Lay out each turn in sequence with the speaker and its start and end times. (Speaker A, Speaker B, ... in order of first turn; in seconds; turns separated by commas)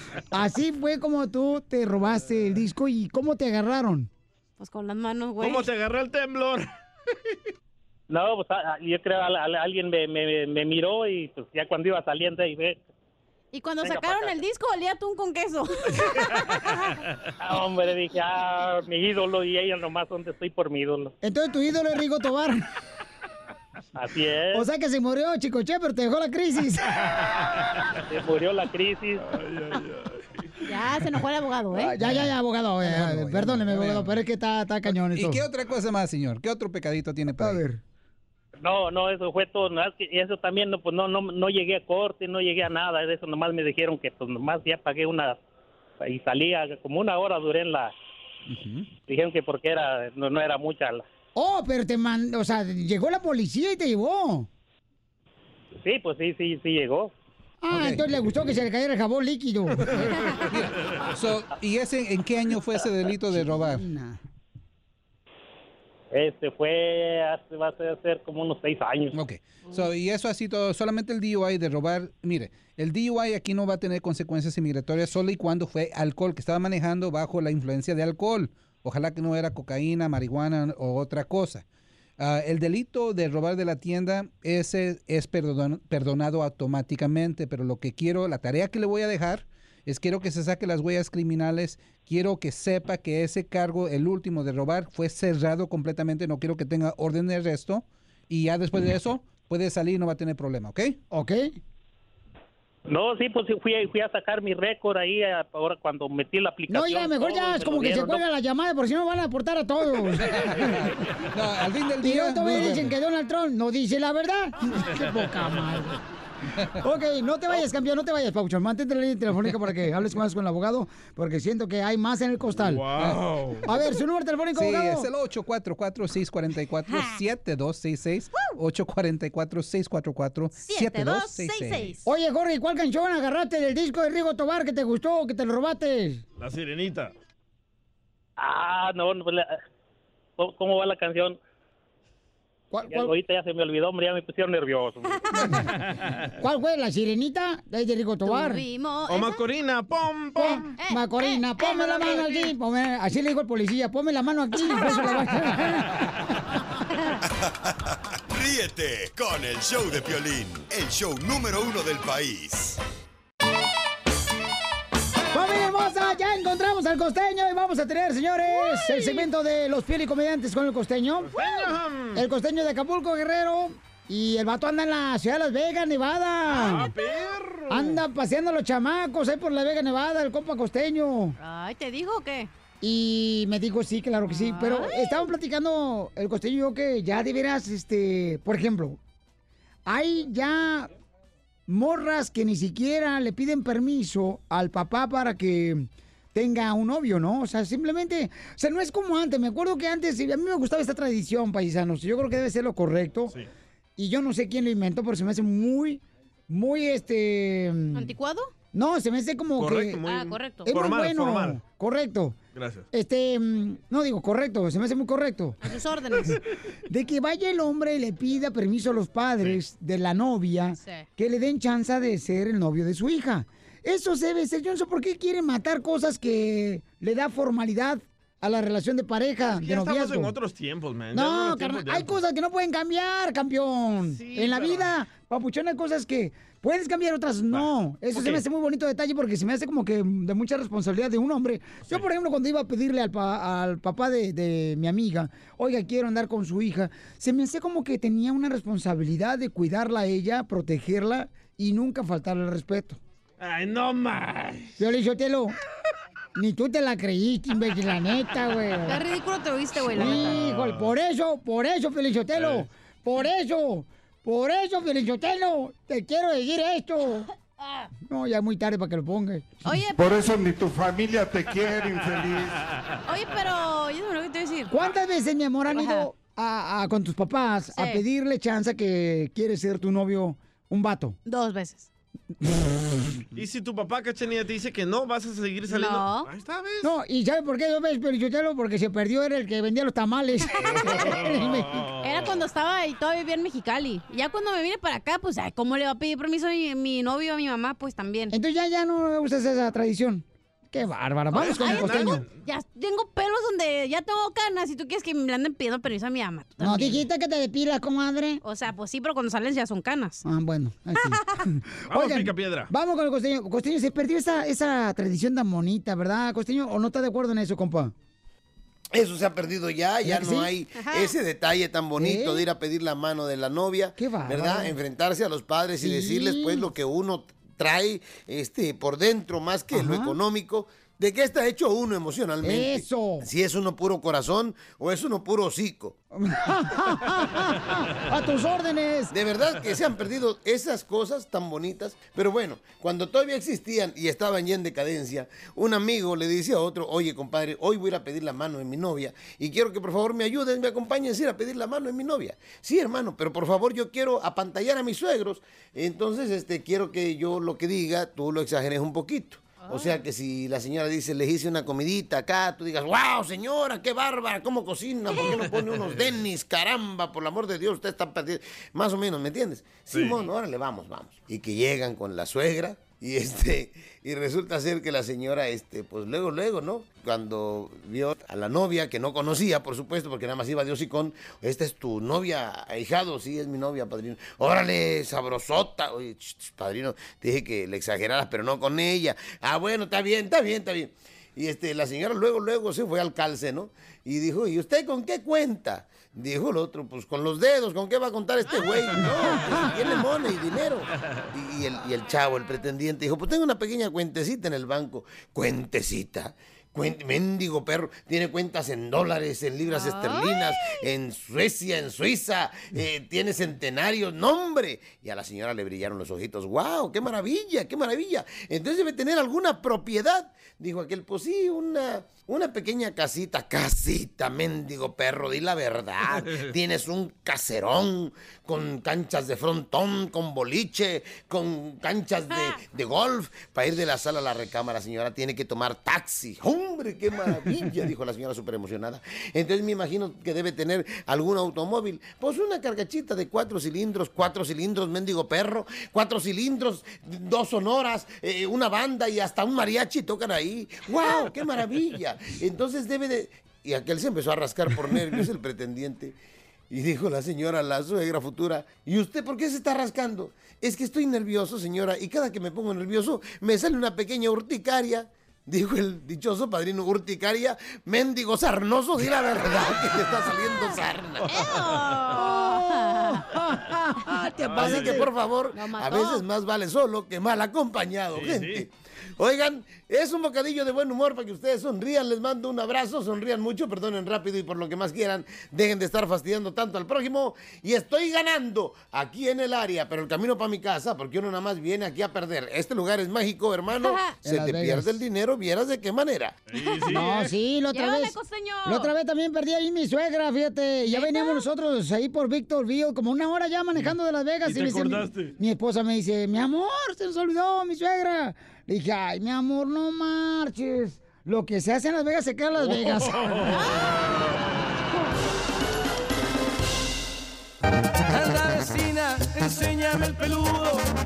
Speaker A: 0.3-4.1, Speaker B: 4.6-5.7, Speaker C: 5.4-6.7, Speaker D: 8.1-12.8, Speaker B: 13.5-16.4, Speaker D: 13.8-14.4, Speaker D: 17.4-21.1, Speaker A: 21.2-22.6, Speaker D: 24.0-24.7, Speaker A: 24.5-26.9, Speaker D: 28.1-29.2, Speaker C: 29.3-30.2, Speaker B: 30.6-32.0, Speaker A: 31.7-35.4, Speaker E: 32.8-34.2, Speaker E: 34.9-37.6, Speaker A: 37.4-37.8, Speaker D: 38.6-45.4, Speaker D: 46.0-47.9, Speaker E: 48.5-48.9, Speaker D: 49.1-51.0, Speaker A: 51.4-54.5, Speaker D: 55.8-57.1, Speaker A: 57.6-60.1, Speaker E: 57.7-58.0, Speaker E: 60.4-63.8, Speaker A: 63.4-64.2, Speaker D: 66.1-69.2, Speaker E: 69.1-81.6, Speaker E: 82.2-101.0, Speaker A: 101.1-101.6, Speaker D: 102.9-108.2, Speaker A: 106.7-110.9, Speaker E: 110.3-112.9, Speaker A: 112.0-116.0, Speaker A: 116.8-122.9, Speaker C: 122.6-123.7, Speaker A: 123.7-125.1, Speaker E: 124.5-131.9, Speaker B: 130.6-132.1, Speaker A: 132.1-136.2, Speaker C: 136.4-137.1, Speaker D: 138.4-139.6, Speaker D: 140.4-141.4, Speaker A: 142.7-143.1, Speaker D: 142.9-145.2, Speaker A: 146.4-148.6, Speaker B: 148.2-149.4, Speaker C: 149.1-150.7, Speaker B: 150.4-152.5, Speaker A: 150.4-156.1, Speaker F: 158.3-162.8, Speaker A: 165.3-171.3, Speaker C: 171.3-172.2, Speaker A: 172.2-176.9, Speaker C: 176.5-178.0, Speaker A: 177.7-181.4, Speaker B: 181.4-182.5, Speaker A: 182.8-189.0, Speaker B: 184.2-185.1, Speaker A: 189.9-190.9, Speaker A: 191.7-203.3, Speaker A: 204.0-208.1, Speaker B: 207.9-208.5, Speaker A: 208.7-210.0, Speaker C: 209.6-211.6, Speaker B: 210.1-210.7, Speaker A: 210.7-212.4, Speaker C: 212.6-212.9, Speaker A: 212.9-215.7, Speaker B: 215.6-216.4, Speaker A: 216.9-230.3, Speaker B: 220.8-221.1, Speaker C: 229.5-232.2, Speaker A: 231.1-253.0, Speaker C: 234.1-234.9, Speaker C: 237.5-238.4, Speaker C: 253.4-254.8, Speaker A: 254.8-255.6, Speaker A: 256.4-259.0, Speaker B: 258.9-260.4, Speaker A: 259.9-267.3, Speaker C: 260.3-260.8, Speaker C: 262.4-262.7, Speaker A: 268.1-269.7, Speaker B: 269.6-270.1, Speaker G: 269.9-272.6, Speaker B: 273.1-274.7, Speaker A: 274.7-281.2, Speaker B: 275.7-276.1, Speaker B: 277.7-278.0, Speaker B: 281.3-281.9, Speaker C: 283.4-286.9, Speaker B: 285.7-286.3, Speaker A: 286.8-291.8, Speaker C: 290.9-292.4, Speaker B: 292.0-298.4, Speaker A: 298.3-302.2, Speaker C: 301.3-302.4, Speaker B: 301.5-307.0, Speaker A: 306.6-308.4, Speaker B: 308.4-310.2, Speaker A: 310.2-317.9, Speaker B: 311.0-311.4, Speaker C: 311.9-312.7, Speaker H: 318.9-335.9, Speaker A: 320.0-320.5, Speaker B: 320.8-321.1, Speaker A: 322.0-322.5, Speaker A: 324.0-324.8, Speaker A: 325.8-326.7, Speaker A: 329.7-330.2, Speaker A: 332.4-333.3, Speaker A: 336.1-339.1, Speaker H: 339.1-456.2, Speaker B: 359.6-360.0, Speaker C: 365.3-366.0, Speaker C: 369.9-370.2, Speaker B: 409.7-410.8, Speaker B: 432.3-432.6, Speaker H: 456.7-471.3, Speaker B: 471.2-473.2, Speaker C: 471.3-472.0, Speaker A: 472.2-475.1, Speaker C: 474.5-475.1, Speaker H: 474.6-496.4, Speaker B: 475.5-476.2, Speaker C: 478.1-478.7, Speaker B: 493.8-494.2, Speaker A: 494.2-495.0, Speaker C: 496.5-497.3, Speaker B: 496.6-497.1, Speaker A: 496.9-513.3, Speaker B: 497.7-498.9, Speaker B: 500.9-501.4, Speaker C: 504.4-505.3, Speaker C: 512.6-513.6, Speaker B: 513.5-514.0, Speaker I: 518.1-520.9